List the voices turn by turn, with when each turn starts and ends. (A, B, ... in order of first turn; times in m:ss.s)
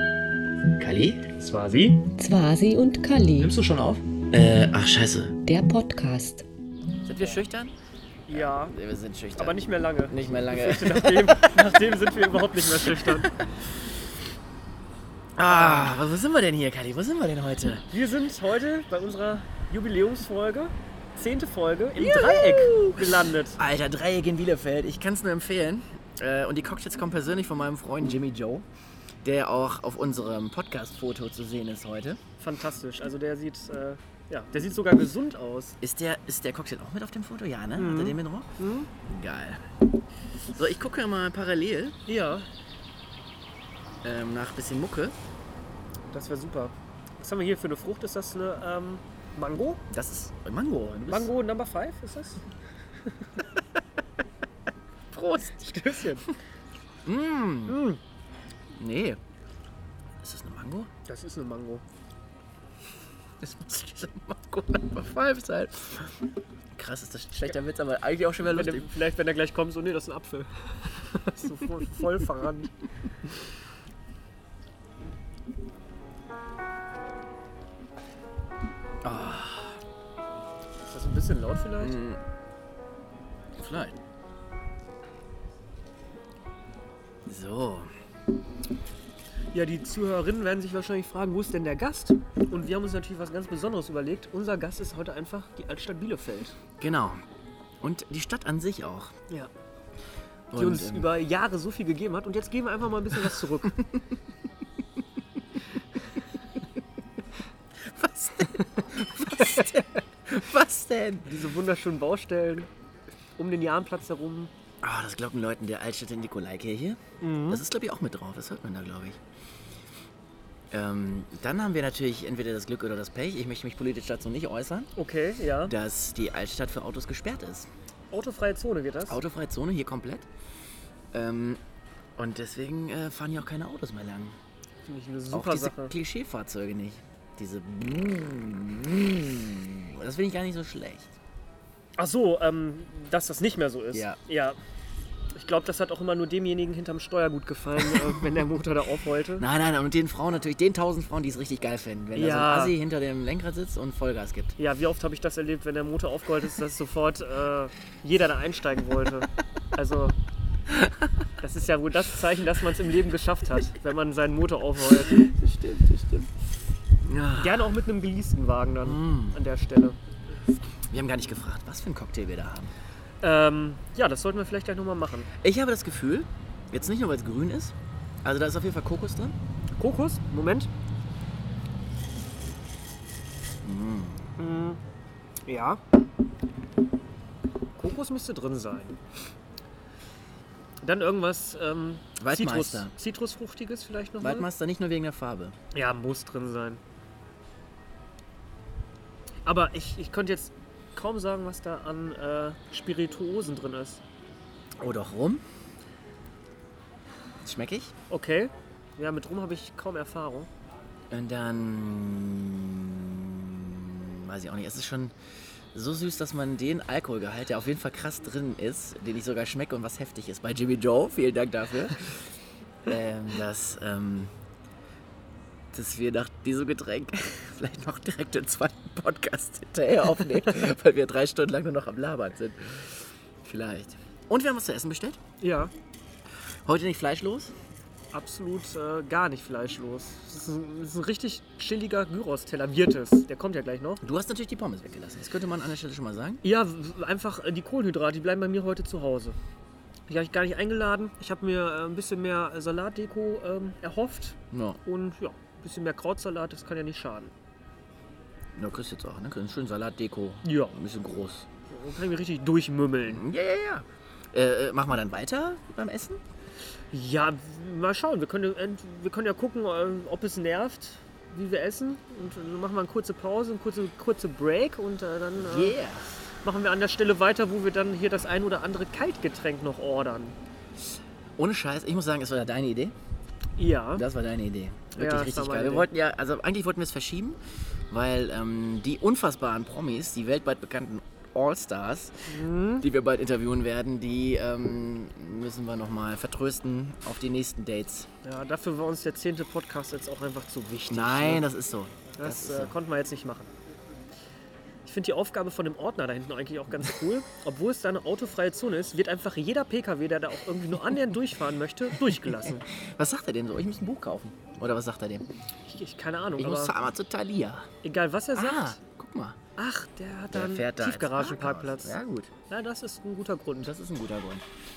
0:00.8-0:01.3 A
0:01.4-0:02.1 B
0:02.2-0:03.5 C
0:03.4-0:04.0 B
0:04.3-0:05.4 A
0:05.4-0:06.4 C
0:07.0-0:07.7 A
0:08.3-0:08.7 B
0:08.3-0:11.8 A
0:09.4-0:13.3 B
0:12.8-0:13.5 A
0:15.4-0:17.9 A
0:15.4-0:16.0 B
0:17.9-0:23.6 B
0:22.0-0:28.6 A
0:29.2-0:32.2 A
0:32.4-0:35.8 B
0:35.8-0:38.5 A
0:37.8-0:38.9 B
0:39.0-0:39.6 A
0:40.5-0:42.0 A
0:42.0-0:42.5 B
0:44.0-0:45.1 A
0:46.1-0:49.8 B
0:49.9-0:51.3 A
0:51.1-0:52.4 B
0:55.1-0:55.8 A
0:55.4-0:56.3 B
0:57.0-0:57.8 A
0:57.7-0:58.0 B
0:58.8-0:59.2 A
1:00.2-1:00.9 A
1:01.1-1:01.8 B
1:03.4-1:06.2 A
1:06.7-1:08.9 A
1:08.5-1:12.7 B
1:19.0-1:19.8 A
1:20.9-1:22.0 B
1:21.8-1:22.2 A
1:23.6-1:24.0 A
1:27.2-1:27.9 A
1:29.5-1:36.6 B
1:36.8-1:37.2 A
1:37.8-1:39.1 A
1:40.5-1:41.1 A
1:40.5-1:43.8 B
1:47.8-1:51.3 A
1:49.4-1:49.8 B
1:51.2-1:52.7 B
1:53.4-1:54.5 B
1:54.8-1:59.2 A
1:57.2-1:57.6 B
2:00.7-2:04.9 A
2:05.0-2:05.7 B
2:05.6-2:07.7 A
2:08.1-2:09.2 B
2:09.1-2:10.3 A
2:11.1-2:11.6 A
2:12.2-2:14.4 A
2:14.9-2:15.9 B
2:15.3-2:21.1 A
2:22.0-2:24.6 B
2:23.9-2:24.2 A
2:25.3-2:29.4 B
2:27.8-2:28.2 A
2:29.4-2:34.6 A
2:32.1-2:32.8 B
2:34.6-2:40.2 B
2:41.4-2:45.3 B
2:45.0-2:46.3 A
2:47.0-2:47.7 A
2:47.4-2:50.0 B
2:48.8-2:49.4 A
2:50.9-2:52.7 A
2:53.2-2:55.3 B
2:55.4-2:59.4 A
2:59.8-3:00.7 B
3:03.6-3:04.3 A
3:04.4-3:04.8 B
3:05.4-3:05.8 B
3:07.8-3:09.0 B
3:10.8-3:14.5 B
3:12.2-3:12.9 A
3:14.2-3:15.6 A
3:15.7-3:16.8 B
3:19.4-3:24.0 B
3:24.8-3:25.4 A
3:27.4-3:27.9 A
3:28.1-3:30.5 B
3:31.1-3:35.1 A
3:35.7-3:44.3 A
3:45.7-3:55.2 A
3:55.4-3:55.7 B
3:56.6-3:57.5 A
3:58.1-4:04.0 B
4:04.0-4:06.4 A
4:06.4-4:09.4 B
4:10.1-4:17.3 B
4:14.5-4:14.8 A
4:18.6-4:21.5 A
4:20.4-4:20.8 B
4:21.7-4:23.2 B
4:23.1-4:26.2 A
4:26.9-4:35.8 B
4:35.4-4:36.0 A
4:36.4-4:40.4 B
4:41.4-4:42.9 A
4:43.6-4:44.0 B
4:43.9-4:47.4 A
4:44.9-4:45.9 B
4:47.9-4:58.1 A
4:52.3-4:52.8 B
4:58.2-5:01.4 B
5:00.9-5:02.7 A
5:02.2-5:03.5 B
5:04.8-5:12.7 B
5:12.0-5:15.2 A
5:15.7-5:16.7 B
5:16.4-5:17.7 A
5:17.8-5:18.8 B
5:18.3-5:19.4 A
5:19.6-5:22.0 B
5:20.3-5:22.3 A
5:22.5-5:23.7 B
5:23.6-5:24.4 A